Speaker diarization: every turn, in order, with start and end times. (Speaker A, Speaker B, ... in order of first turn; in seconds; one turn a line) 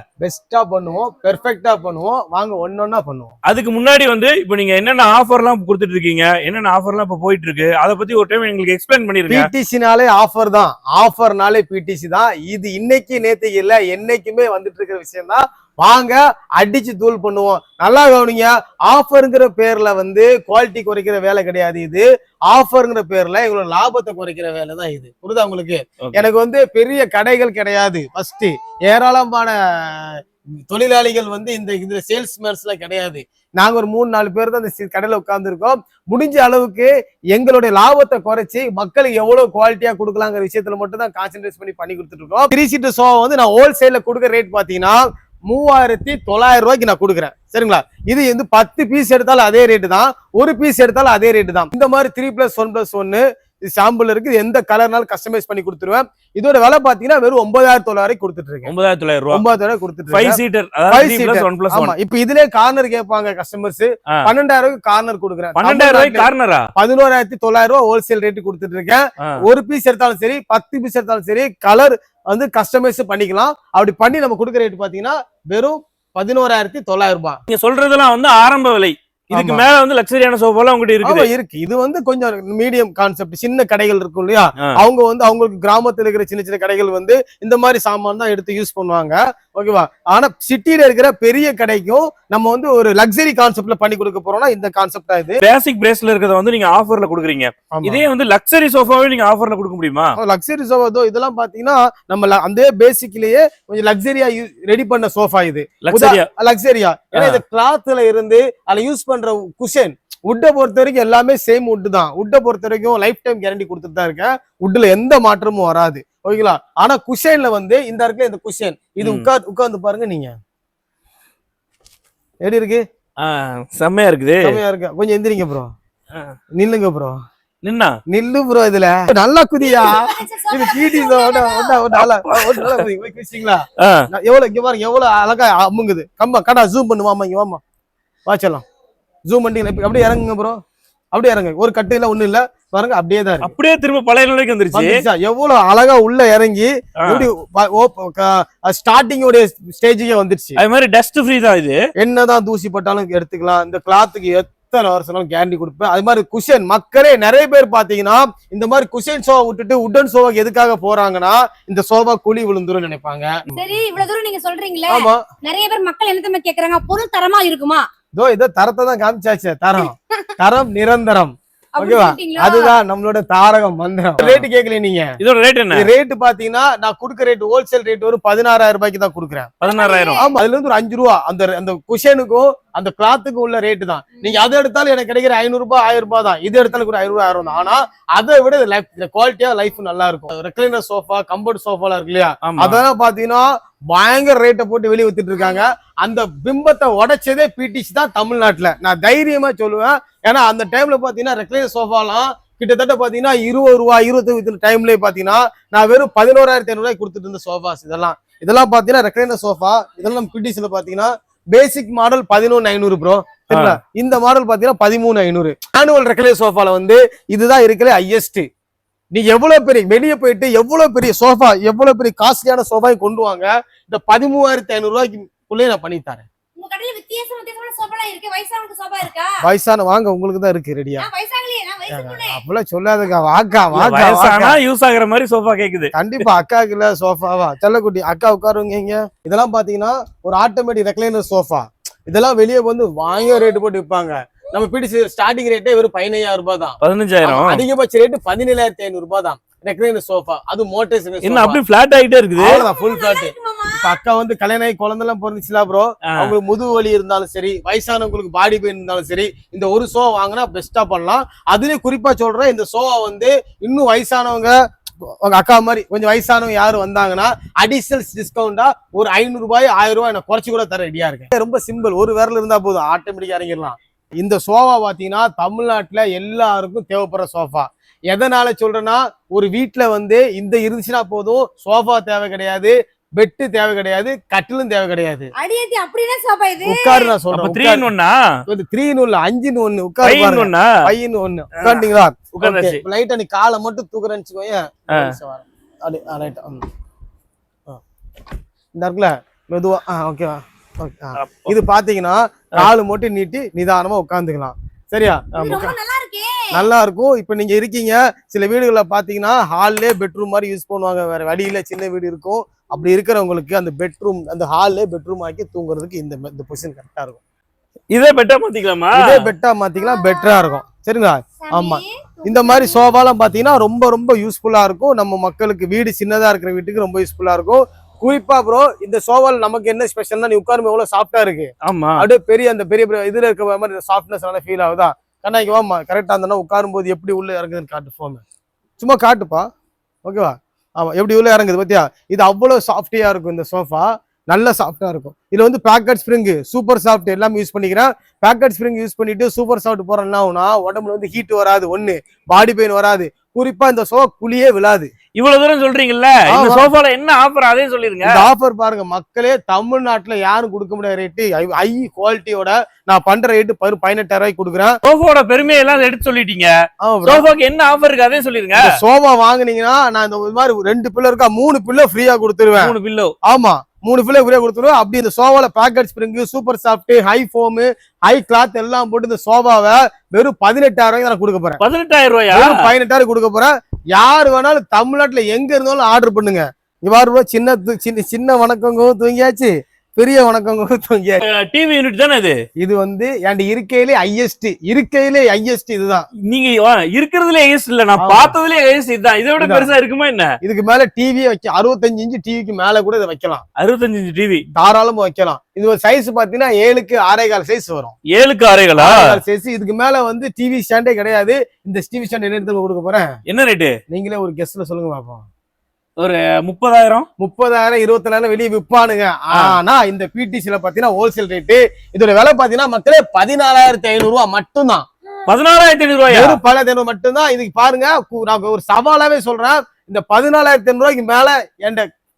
Speaker A: 0.2-3.3
Speaker B: 3.5-9.5
Speaker A: 9.3-58.7
Speaker B: 58.6-59.4
Speaker A: 59.3-77.4
Speaker B: 60.1-61.9
Speaker B: 65.6-66.6
Speaker B: 77.5-81.3
Speaker A: 79.3-79.7
Speaker A: 81.0-95.4
Speaker B: 95.4-100.1
Speaker A: 97.7-98.0
Speaker A: 100.2-120.3
Speaker B: 105.8-106.2
Speaker B: 107.1-107.4
Speaker B: 119.0-119.3
Speaker A: 122.4-122.8
Speaker B: 123.2-124.6
Speaker A: 124.4-125.7
Speaker A: 126.6-127.2
Speaker B: 127.6-127.9
Speaker A: 128.1-137.6
Speaker C: 129.6-131.8
Speaker B: 131.9-132.8
Speaker B: 133.8-134.1
Speaker A: 138.3-138.6
Speaker A: 139.3-140.6
Speaker A: 141.1-143.5
Speaker B: 143.4-145.0
Speaker A: 144.7-150.6
Speaker B: 147.0-147.3
Speaker B: 150.6-151.8
Speaker A: 152.0-163.8
Speaker C: 163.6-167.8
Speaker A: 164.9-165.2
Speaker A: 168.2-175.2
Speaker C: 169.8-170.3
Speaker C: 171.8-172.7
Speaker B: 174.2-174.4
Speaker B: 175.2-175.9
Speaker A: 175.7-179.5
Speaker B: 179.6-180.2
Speaker C: 179.6-180.3
Speaker A: 180.2-218.5
Speaker B: 192.4-192.8
Speaker B: 213.5-213.8
Speaker A: 219.1-226.2
Speaker C: 226.6-229.3
Speaker A: 229.4-231.1
Speaker C: 231.0-232.4
Speaker A: 231.9-234.6
Speaker B: 233.7-235.9
Speaker A: 235.9-251.6
Speaker C: 243.1-243.5
Speaker B: 246.8-247.6
Speaker B: 251.2-252.6
Speaker A: 252.4-285.3
Speaker C: 252.4-253.9
Speaker C: 285.4-287.1
Speaker A: 286.6-287.9
Speaker B: 287.3-288.1
Speaker A: 288.5-296.6
Speaker B: 290.0-290.8
Speaker B: 291.6-291.9
Speaker B: 292.4-292.8
Speaker A: 298.7-305.8
Speaker B: 301.2-301.5
Speaker B: 305.3-305.6
Speaker C: 305.4-306.5
Speaker A: 306.5-317.2
Speaker B: 317.9-319.2
Speaker A: 318.9-338.2
Speaker C: 319.8-320.6
Speaker C: 321.4-323.0
Speaker B: 331.6-332.0
Speaker A: 338.8-339.5
Speaker A: 340.0-354.9
Speaker B: 355.1-358.2
Speaker A: 356.3-356.7
Speaker A: 358.0-364.8
Speaker B: 364.8-366.5
Speaker A: 366.8-367.2
Speaker B: 367.1-368.6
Speaker A: 368.6-372.7
Speaker B: 372.6-373.1
Speaker A: 373.3-381.6
Speaker B: 381.6-382.6
Speaker A: 382.3-391.2
Speaker B: 391.3-392.4
Speaker A: 392.6-396.1
Speaker B: 396.3-400.3
Speaker A: 398.0-398.3
Speaker A: 399.4-399.7
Speaker A: 400.4-403.4
Speaker B: 403.6-404.4
Speaker A: 404.5-407.9
Speaker B: 408.1-409.0
Speaker A: 408.8-413.1
Speaker B: 413.3-413.7
Speaker A: 413.9-415.2
Speaker B: 416.0-417.1
Speaker A: 417.2-424.9
Speaker B: 425.3-426.4
Speaker A: 426.1-431.9